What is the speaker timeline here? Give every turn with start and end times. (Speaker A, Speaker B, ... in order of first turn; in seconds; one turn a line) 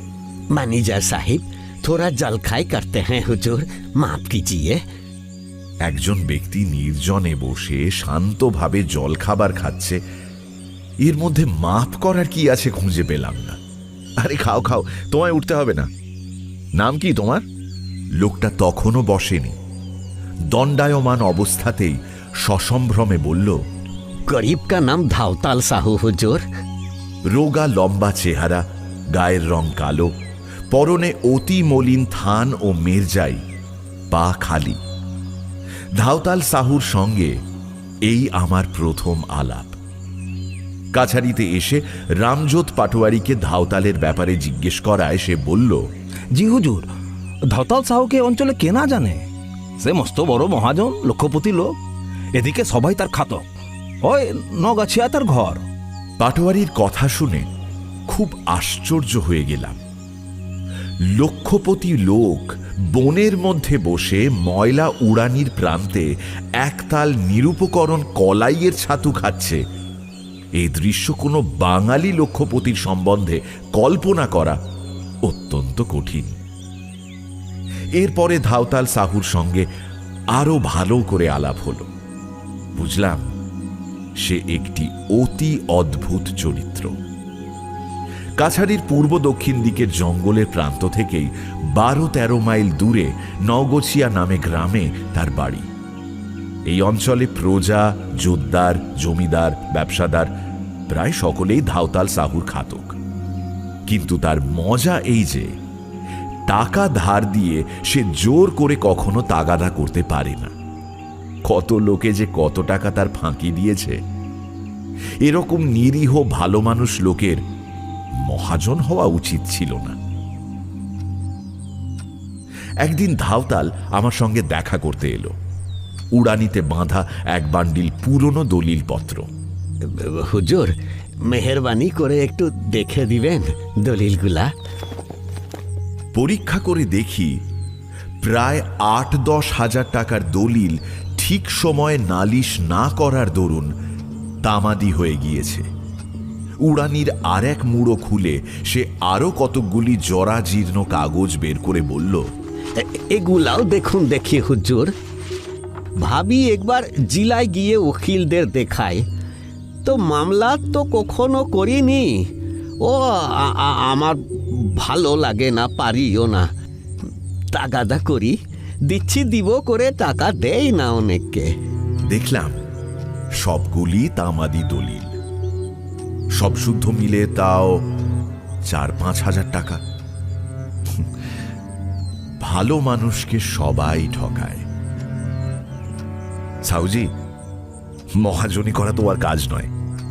Speaker A: 0.5-4.8
Speaker B: 5.9-10.0
Speaker B: 11.0-13.6
Speaker B: 14.2-15.9
Speaker B: 16.8-17.4
Speaker B: 18.2-19.6
Speaker B: 20.5-23.6
Speaker A: 24.3-26.4
Speaker B: 27.3-30.1
Speaker B: 30.7-33.4
Speaker B: 34.1-34.8
Speaker B: 36.0-37.4
Speaker B: 38.1-39.8
Speaker B: 40.9-45.9
Speaker C: 46.3-46.9
Speaker C: 47.5-49.2
Speaker C: 49.8-51.8
Speaker C: 52.4-53.5
Speaker C: 54.0-55.6
Speaker B: 56.2-57.5
Speaker B: 58.1-59.8
Speaker B: 61.1-66.1
Speaker B: 66.6-69.6
Speaker B: 70.6-74.6
Speaker B: 75.2-76.4
Speaker B: 78.0-79.7
Speaker B: 80.3-81.9
Speaker B: 82.8-83.2
Speaker B: 84.2-87.0
Speaker B: 88.4-95.7
Speaker B: 96.7-100.3
Speaker B: 100.9-103.0
Speaker B: 103.9-105.5
Speaker B: 106.5-110.5
Speaker B: 111.5-114.0
Speaker B: 115.2-117.4
Speaker B: 118.2-120.0
Speaker B: 122.8-125.3
Speaker B: 126.1-129.3
Speaker A: 129.8-134.5
Speaker B: 136.2-137.4
Speaker B: 138.2-143.7
Speaker B: 144.4-145.7
Speaker B: 146.6-152.3
Speaker A: 152.8-154.9
Speaker A: 156.0-159.0
Speaker A: 159.8-162.3
Speaker A: 162.8-166.5
Speaker A: 167.5-168.4
Speaker A: 168.9-171.5
Speaker B: 172.1-172.6
Speaker B: 173.4-175.1
Speaker B: 176.4-177.8
Speaker B: 178.7-179.8
Speaker B: 182.4-184.7
Speaker B: 186.7-187.1
Speaker B: 188.2-189.7